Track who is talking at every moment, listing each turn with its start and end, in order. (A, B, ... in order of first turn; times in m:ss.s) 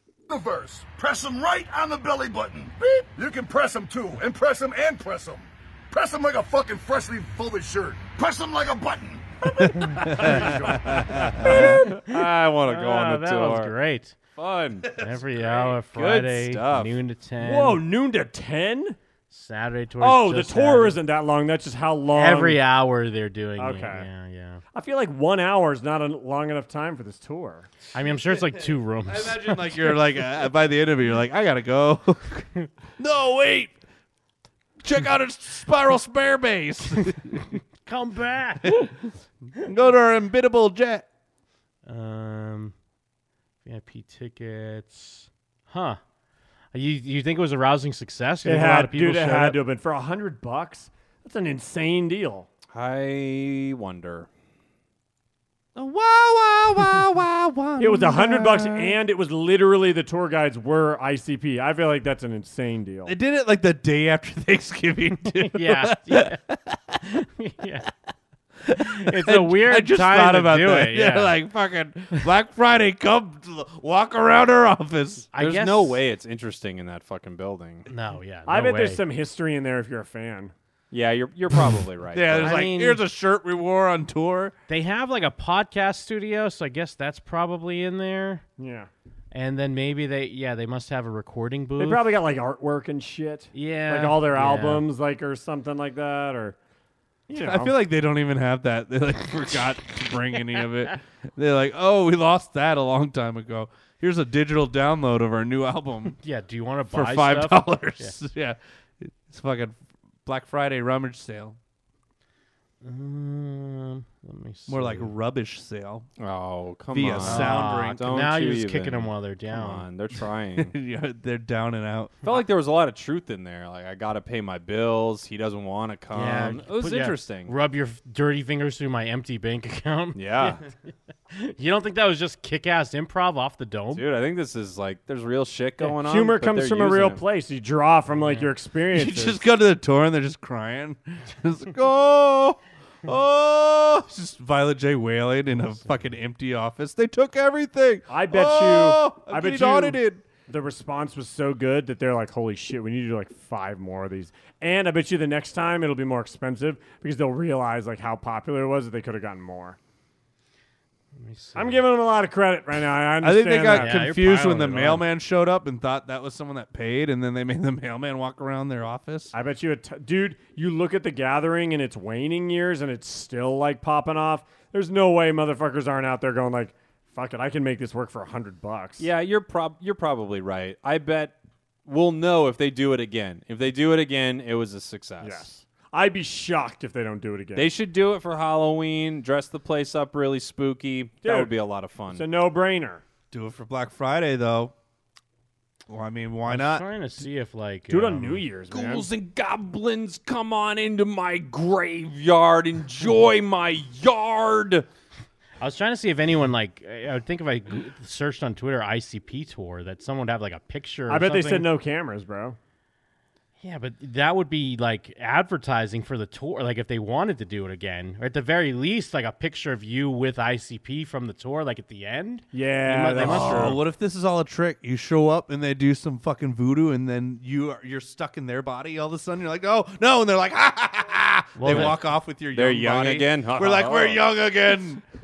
0:00.3-0:01.0 A
0:00.9-0:02.8 B
0:02.8-0:08.2 A
0:08.0-0:09.7 B
0:09.7-0:11.7 C
0:10.4-0:10.8 B
0:11.4-0:12.2 D
0:11.4-0:13.7 E
0:12.7-0:14.2 D
0:14.4-0:17.0 E
0:15.0-0:17.8 D
0:17.4-0:19.0 F
0:19.3-0:21.0 D
0:20.0-0:22.6 F
0:22.2-0:24.6 D
0:23.6-0:24.1 F
0:24.7-0:27.7 F
0:27.9-0:29.8 D
0:28.0-0:33.8 C
0:34.8-0:37.5 C
0:37.8-0:38.9 D
0:38.6-0:41.1 C
0:41.9-0:42.7 D
0:43.6-0:46.0 D
0:46.7-0:49.6 D
0:48.4-0:52.5 F
0:52.7-0:54.3 E
0:55.8-0:59.0 C
0:57.8-1:03.2 F
1:03.1-1:07.0 C
1:05.4-1:06.4 D
1:07.1-1:07.9 D
1:08.6-1:15.3 C
1:08.9-1:11.4 D
1:15.3-1:16.0 D
1:15.4-1:17.9 E
1:17.9-1:19.0 D
1:18.5-1:20.5 F
1:20.9-1:22.6 E
1:22.1-1:24.6 C
1:22.4-1:23.0 D
1:24.7-1:28.4 D
1:28.6-1:28.9 F
1:29.3-1:32.0 D
1:31.8-1:36.6 F
1:33.5-1:34.8 D
1:37.3-1:37.7 F
1:37.3-1:46.2 C
1:46.2-1:48.2 D
1:46.9-1:51.6 C
1:52.8-1:55.1 D
1:54.7-1:56.1 C
1:56.2-2:00.8 E
1:56.9-1:58.1 C
1:57.2-1:59.9 D
2:00.6-2:02.2 C
2:02.2-2:07.5 E
2:06.1-2:10.6 D
2:10.2-2:10.6 E
2:11.3-2:14.0 D
2:13.9-2:17.2 E
2:16.0-2:19.4 F
2:18.2-2:18.5 D
2:18.9-2:30.2 C
2:28.1-2:39.8 F
2:41.2-2:41.8 D
2:41.6-2:44.0 F
2:43.2-2:49.3 C
2:43.7-2:45.1 D
2:49.3-2:59.1 F
2:59.0-3:01.4 E
3:01.9-3:05.5 E
3:05.2-3:07.7 F
3:07.6-3:12.3 E
3:11.2-3:11.5 F
3:12.1-3:13.0 F
3:13.3-3:14.7 C
3:15.9-3:16.9 C
3:16.5-3:18.4 D
3:17.9-3:19.1 F
3:18.7-3:24.9 E
3:25.6-3:31.7 D
3:31.1-3:32.6 F
3:33.6-3:43.8 D
3:42.5-3:43.8 F
3:43.2-3:55.0 C
3:51.6-3:52.0 D
3:51.7-3:52.0 E
3:52.5-3:54.3 E